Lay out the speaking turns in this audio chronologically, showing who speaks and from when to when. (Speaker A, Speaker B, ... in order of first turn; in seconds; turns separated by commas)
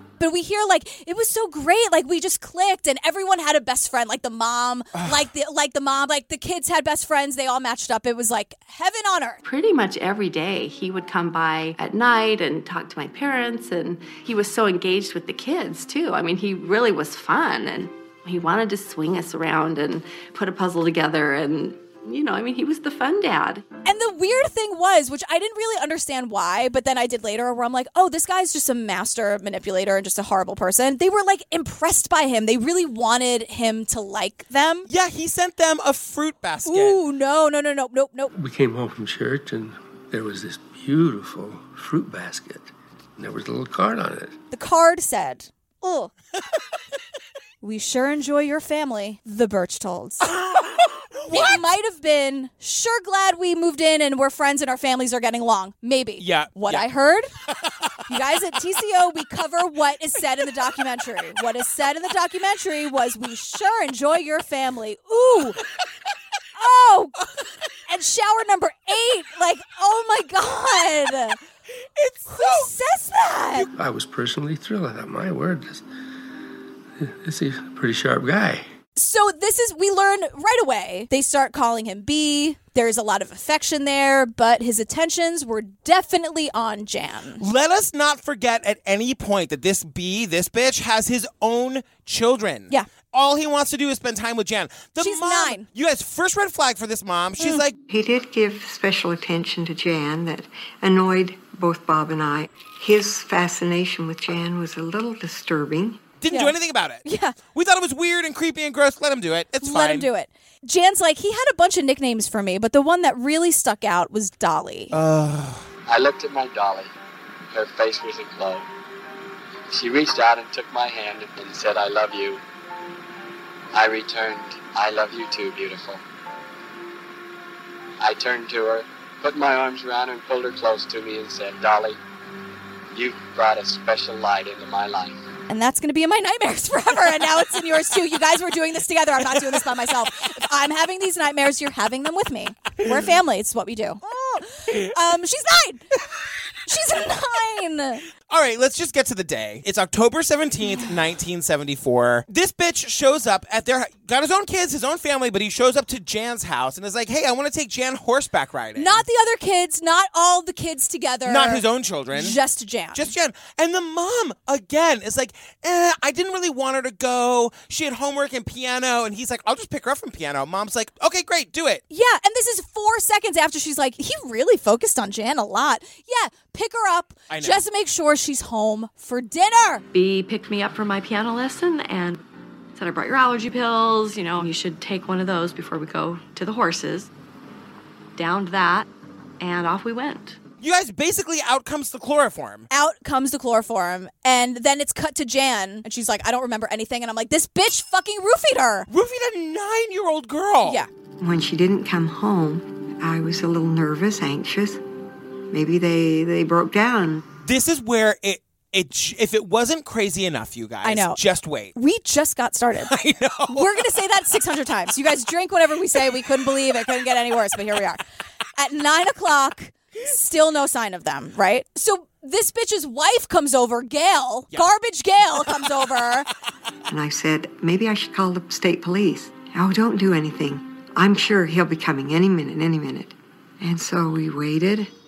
Speaker A: 0.2-9.4, Speaker B: 9.4-23.6, Speaker A: 23.9-34.9, Speaker C: 34.9-37.0, Speaker A: 36.6-38.3, Speaker D: 38.4-44.4, Speaker A: 44.5-46.1, Speaker A: 47.6-50.3, Speaker C: 50.3-51.6, Speaker A: 51.3-57.3, Speaker C: 56.2-56.9, Speaker A: 58.1-65.6, Speaker A: 66.5-67.2, Speaker A: 67.9-71.4, Speaker C: 72.0-72.7, Speaker A: 72.3-73.7, Speaker D: 73.7-75.8, Speaker D: 77.0-78.7, Speaker A: 79.0-87.4, Speaker C: 87.4-97.7, Speaker A: 95.0-95.7, Speaker A: 97.4-97.6, Speaker E: 97.9-106.0, Speaker C: 106.2-110.1, Speaker A: 106.3-107.4, Speaker A: 109.6-114.9, Speaker C: 114.9-115.7, Speaker F: 115.9-116.9, Speaker F: 117.5-118.7, Speaker F: 119.7-122.4, Speaker F: 123.7-126.0, Speaker F: 128.0-132.0, Speaker F: 132.9-135.2, Speaker A: 135.5-145.9, Speaker A: 146.7-148.0, Speaker C: 148.3-159.0, Speaker A: 158.8-163.1, Speaker C: 161.2-162.4, Speaker C: 162.9-171.8, Speaker A: 171.9-179.8, Speaker C: 177.3-177.6, Speaker B: 179.9-182.2, Speaker B: 182.8-187.1, Speaker B: 188.2-188.9, Speaker B: 189.4-190.4, Speaker C: 190.6-192.7, Speaker A: 192.7-198.9, Speaker C: 198.9-200.8, Speaker E: 201.2-204.8, Speaker E: 205.5-207.2, Speaker C: 207.4-211.7, Speaker A: 210.8-211.2, Speaker A: 211.7-212.9, Speaker C: 212.8-213.7, Speaker A: 213.5-218.0, Speaker A: 218.6-226.3, Speaker E: 226.9-234.9